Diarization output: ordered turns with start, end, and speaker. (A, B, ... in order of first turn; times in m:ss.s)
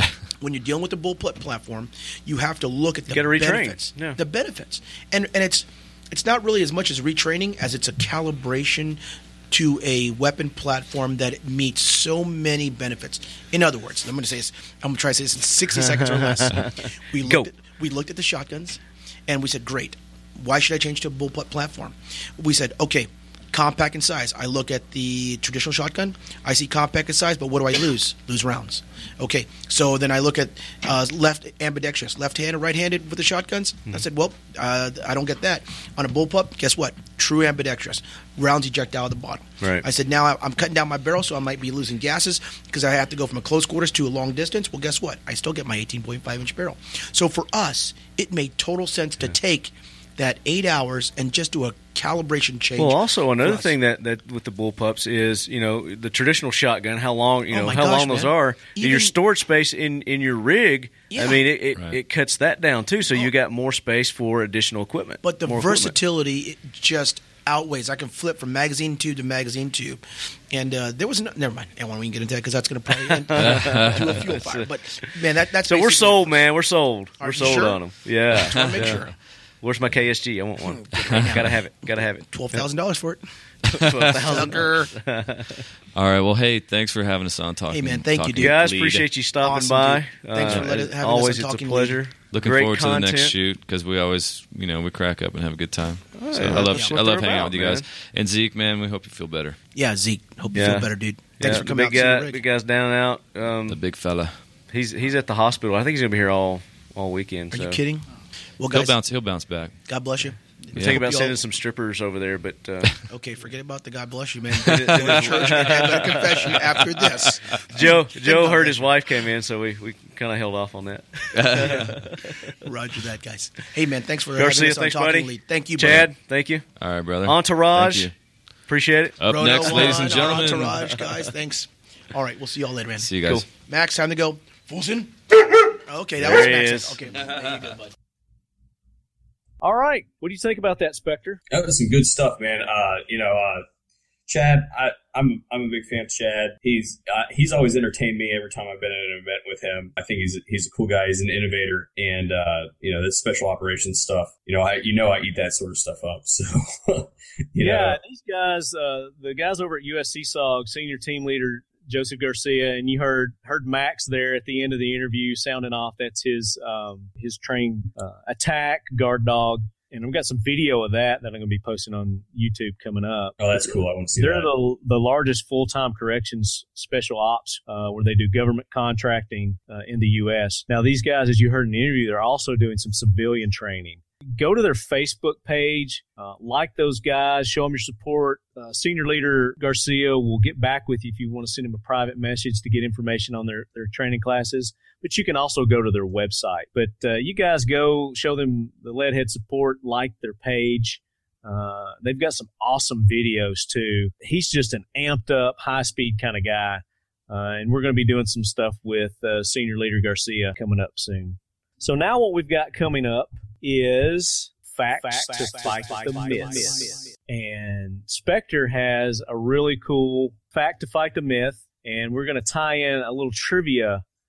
0:00.4-0:53.8 A
0:03.1-0:04.2 B
0:15.8-0:17.5 B
0:52.8-1:06.0 B
0:57.5-0:59.1 A
1:01.1-1:01.4 A
1:05.2-1:16.5 A
1:13.0-1:19.0 B
1:13.4-1:14.1 C
1:17.2-1:19.1 A
1:18.6-1:18.9 C
1:19.6-1:22.6 B
1:20.8-1:23.2 A
1:21.1-1:21.4 C
1:23.7-1:24.1 C
1:23.7-1:25.6 B
1:24.1-1:24.9 A
1:25.9-1:29.0 C
1:27.7-1:28.7 A
1:28.4-1:33.4 B
1:29.4-1:32.0 A
1:32.3-1:39.6 C
1:36.1-1:37.8 B
1:36.5-1:37.0 A
1:39.7-1:42.4 A
1:40.5-1:43.8 B
1:43.7-1:44.4 C
1:44.7-1:47.8 B
1:47.5-1:48.0 A
1:48.6-1:49.0 A
1:48.7-1:49.7 C
1:49.9-1:51.4 A
1:50.7-1:51.0 C
1:50.8-1:53.0 B
1:53.1-1:59.1 A
1:54.6-1:56.8 B
1:57.7-2:02.5 B
2:01.3-2:02.0 C
2:01.5-2:01.9 A
2:02.6-2:06.0 A
2:04.4-2:06.6 B
2:06.8-2:08.1 C
2:07.2-2:08.1 B
2:08.7-2:11.0 B
2:09.2-2:10.8 C
2:09.3-2:17.7 A
2:13.0-2:13.4 C
2:16.2-2:17.0 B
2:19.6-2:21.4 D
2:21.5-2:23.6 E
2:24.3-2:38.0 E
2:37.6-3:44.0 D
2:53.4-2:54.5 E